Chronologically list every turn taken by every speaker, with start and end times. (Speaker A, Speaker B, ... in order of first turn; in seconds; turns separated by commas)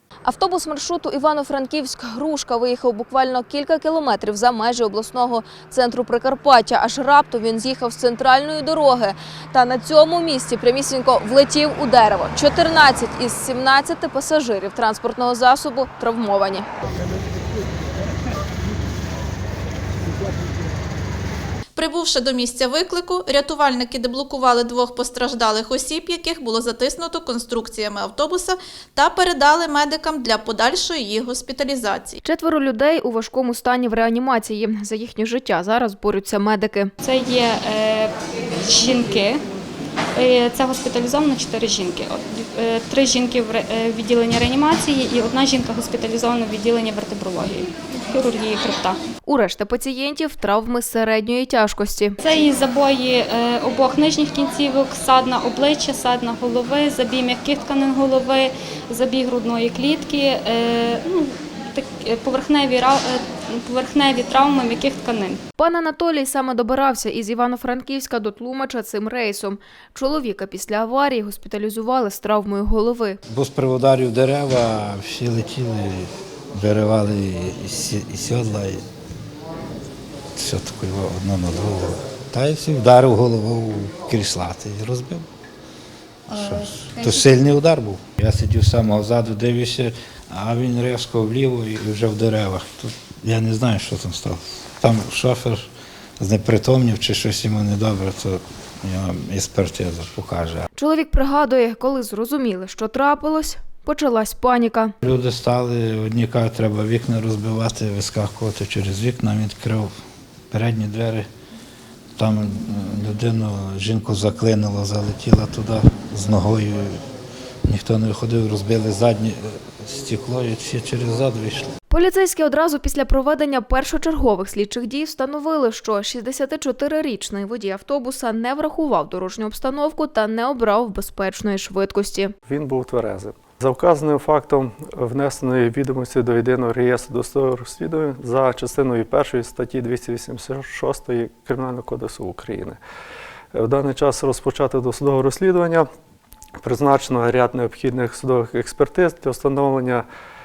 Speaker A: 0.2-16.7, Speaker B: 21.8-32.2, Speaker A: 32.2-36.9, Speaker C: 37.0-38.1, Speaker C: 38.6-39.4, Speaker C: 40.1-49.0, Speaker A: 49.2-52.2, Speaker C: 52.2-65.4, Speaker A: 65.6-73.2, Speaker D: 73.3-78.8, Speaker D: 80.3-85.2, Speaker D: 86.3-95.7, Speaker D: 96.2-100.7, Speaker A: 100.8-104.9, Speaker D: 105.0-109.9, Speaker D: 110.5-111.3, Speaker D: 112.2-117.0, Speaker D: 117.6-121.7, Speaker A: 121.9-132.3, Speaker E: 132.4-142.8, Speaker E: 143.5-145.8, Speaker E: 146.6-150.1